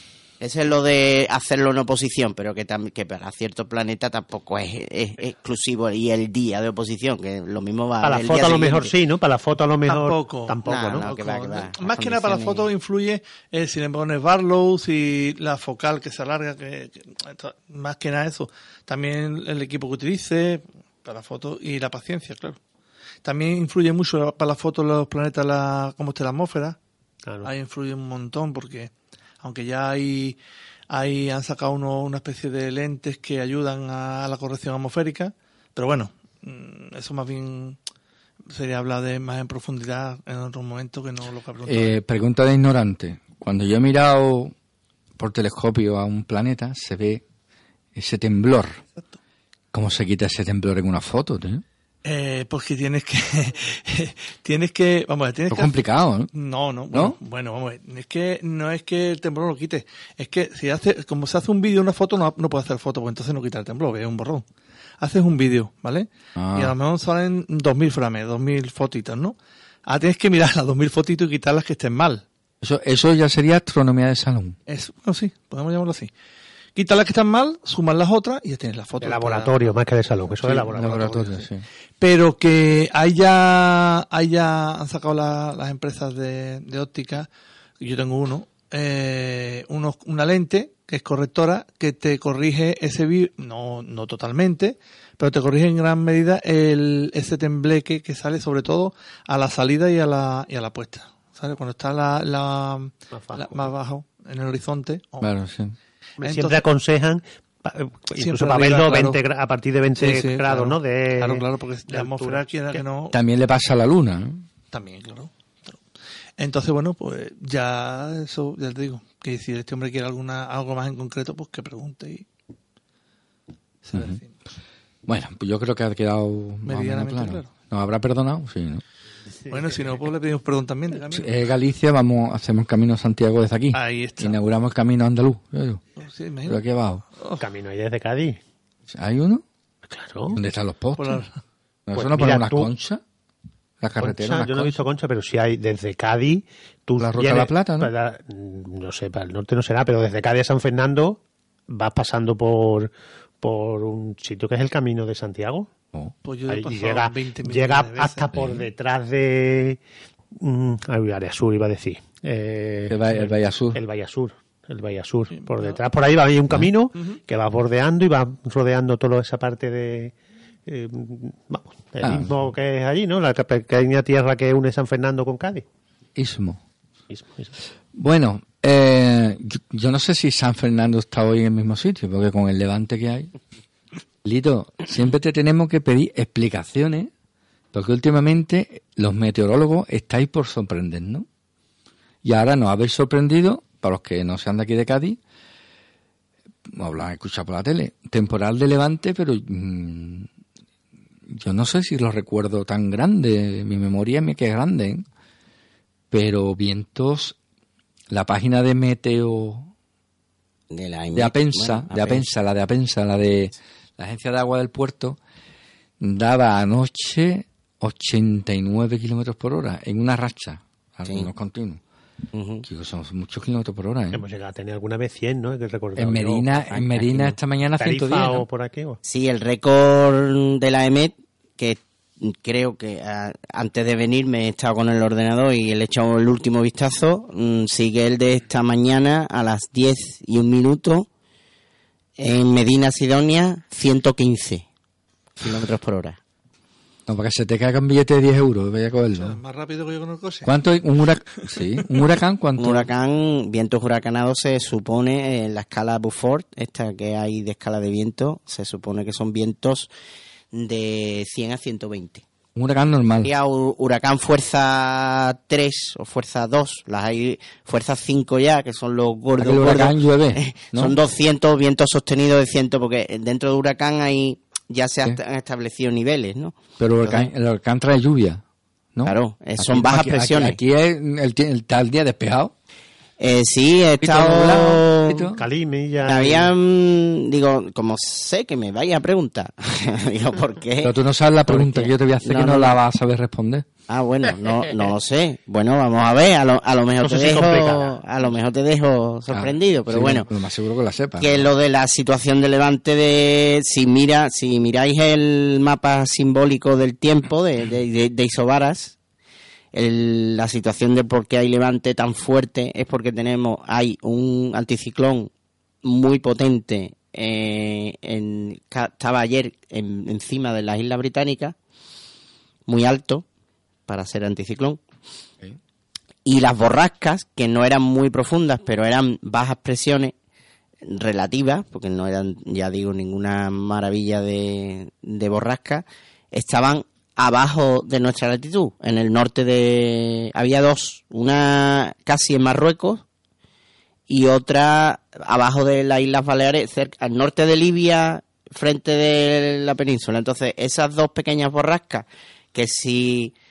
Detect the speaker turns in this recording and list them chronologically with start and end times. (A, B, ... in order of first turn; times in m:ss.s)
0:00.4-0:08.9 A
0:08.0-0:11.1 B
0:09.8-0:22.6 C
0:10.6-0:12.7 A
0:23.2-0:26.8 C
0:27.4-0:28.9 C
0:29.4-0:30.4 C
0:30.9-0:37.8 C
0:38.5-0:42.0 C
0:41.6-0:44.5 D
0:45.2-0:47.2 D
0:47.9-0:48.8 D
0:49.7-0:51.6 D
0:52.0-0:55.8 C
0:55.5-0:56.3 D
0:56.3-1:04.4 C
0:56.9-0:57.2 D
1:05.0-1:12.2 C
1:06.4-1:06.7 D
1:12.6-1:14.6 D
1:14.7-1:16.1 C
1:16.8-1:19.8 C
1:19.0-1:21.5 B
1:20.6-1:21.6 D
1:22.0-1:27.3 C
1:27.8-1:45.3 C
1:43.1-1:43.7 B
1:45.2-1:45.7 D
1:46.2-1:46.6 C
1:46.2-1:52.8 B
1:48.2-1:49.2 C
1:50.0-1:53.2 C
1:53.1-1:54.4 D
1:54.7-1:55.8 C
1:56.4-2:02.2 C
2:03.8-2:04.3 C
2:03.9-2:04.2 D
2:05.1-2:08.8 D
2:06.6-2:07.5 C
2:09.5-2:09.9 B
2:09.5-2:11.3 C
2:11.1-2:15.8 D
2:13.7-2:14.4 C
2:16.0-2:16.6 C
2:16.4-2:17.0 D
2:17.2-2:17.4 C
2:17.4-2:18.4 B
2:18.9-2:19.4 D
2:19.9-2:20.4 B
2:20.3-2:21.2 D
2:21.0-2:21.4 C
2:21.9-2:23.0 D
2:21.9-2:22.7 B
2:23.8-2:24.8 D
2:24.0-2:35.7 B
2:27.0-2:27.9 D
2:36.2-2:38.3 C
2:36.5-2:39.8 B
2:38.3-2:38.7 D
2:40.4-2:50.2 B
2:42.9-2:43.8 D
2:45.3-2:45.8 C
2:50.7-2:55.6 B
2:52.0-2:52.3 D
2:56.2-2:56.6 D
2:57.1-2:57.5 B
2:57.9-3:03.3 D
3:04.2-3:07.1 D
3:07.7-3:11.2 D
3:12.2-3:15.2 D
3:16.7-3:20.3 D
3:21.3-3:25.0 D
3:26.1-3:27.4 D
3:28.1-3:29.7 D
3:30.7-3:32.3 A
3:31.1-3:35.2 D
3:36.0-3:41.8 D
3:42.3-3:42.6 A
3:42.6-3:44.2 D
3:44.1-3:49.0 B
3:46.0-3:48.4 D
3:49.0-4:01.1 A
4:02.2-4:04.6 A
4:05.4-4:06.2 A
4:07.1-4:09.4 D
4:09.1-4:10.5 C
4:10.4-4:12.9 D
4:11.3-4:11.8 C
4:12.6-4:19.9 A
4:20.5-4:22.2 A
4:22.6-4:23.3 D
4:23.2-4:37.3 A
4:29.4-4:31.0 D
4:36.8-4:38.4 D
4:38.9-4:42.5 D
4:39.0-4:40.6 A
4:43.2-4:45.2 A
4:44.0-4:45.4 D
4:45.3-4:46.5 B
4:46.0-4:50.9 A
4:50.8-4:53.7 D
4:51.5-4:52.8 A
4:53.9-5:00.3 A
4:57.0-4:58.0 B
4:59.3-5:01.5 D
5:01.2-5:09.0 A
5:09.7-5:15.3 A
5:15.8-5:21.6 A
5:22.7-5:23.2 A
5:23.9-5:24.8 A
5:26.2-5:30.1 A
5:30.8-5:43.0 A
5:44.1-5:53.3 A